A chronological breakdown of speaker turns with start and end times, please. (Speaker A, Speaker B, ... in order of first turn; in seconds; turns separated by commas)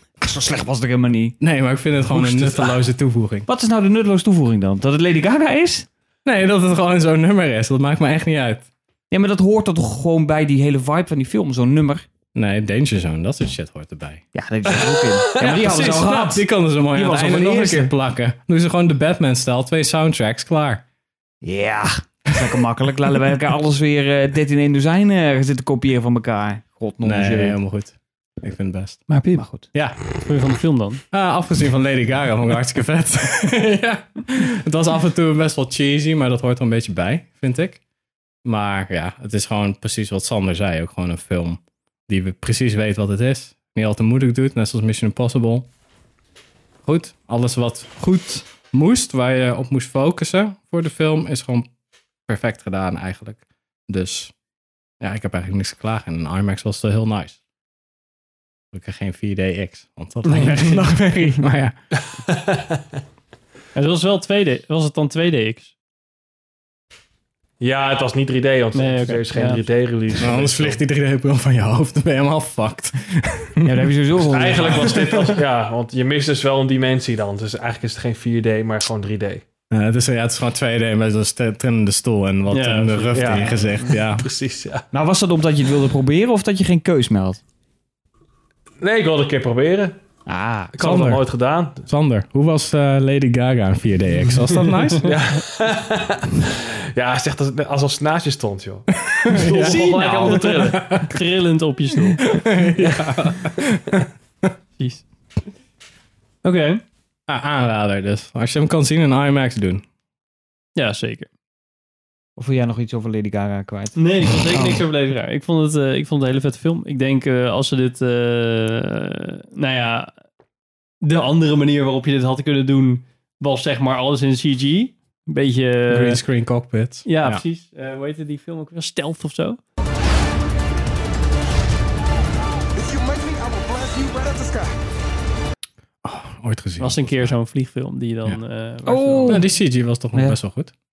Speaker A: 0.2-1.4, Speaker B: 1.4-3.5, Speaker A: 2.1-2.8, Speaker A: 3.5-5.9, Speaker B: 6.2-8.7, Speaker A: 9.1-12.0, Speaker B: 12.3-14.2, Speaker A: 14.3-17.9, Speaker B: 15.4-20.8, Speaker C: 15.4-15.7, Speaker A: 21.4-27.6, Speaker B: 27.0-29.1, Speaker D: 29.1-29.6, Speaker A: 29.4-29.7, Speaker B: 29.7-30.1, Speaker D: 30.2-31.0, Speaker B: 31.1-37.8, Speaker B: 38.4-45.7, Speaker B: 46.8-51.7, Speaker B: 52.3-54.3, Speaker B: 55.0-57.4, Speaker B: 58.7-61.7, Speaker D: 60.3-60.7, Speaker A: 60.5-60.8, Speaker C: 62.1-62.8, Speaker D: 63.7-65.7, Speaker C: 67.6-70.8, Speaker D: 68.7-69.6, Speaker B: 70.2-73.8, Speaker A: 73.6-75.2, Speaker C: 74.3-79.4, Speaker B: 79.7-84.3, Speaker D: 82.5-83.6, Speaker C: 83.1-84.8, Speaker A: 84.9-87.4, Speaker C: 88.8-90.0, Speaker A: 90.2-90.9, Speaker C: 90.7-91.9, Speaker B: 90.8-91.2, Speaker B: 91.9-95.1, Speaker D: 94.4-95.0, Speaker C: 95.0-101.0, Speaker B: 99.0-101.2, Speaker D: 99.2-102.2, Speaker B: 102.2-104.0, Speaker C: 102.8-103.6, Speaker D: 104.8-105.0, Speaker D: 106.4-106.8, Speaker B: 107.3-109.8, Speaker D: 110.8-111.3, Speaker A: 112.4-114.8, Speaker D: 114.0-120.1, Speaker D: 121.0-126.2, Speaker B: 125.9-127.4, Speaker D: 127.0-129.6, Speaker E: 132.8-134.7, Speaker B: 136.0-137.4, Speaker D: 136.8-139.4, Speaker A: 138.8-139.6, Speaker B: 139.2-140.7, Speaker A: 140.1-140.4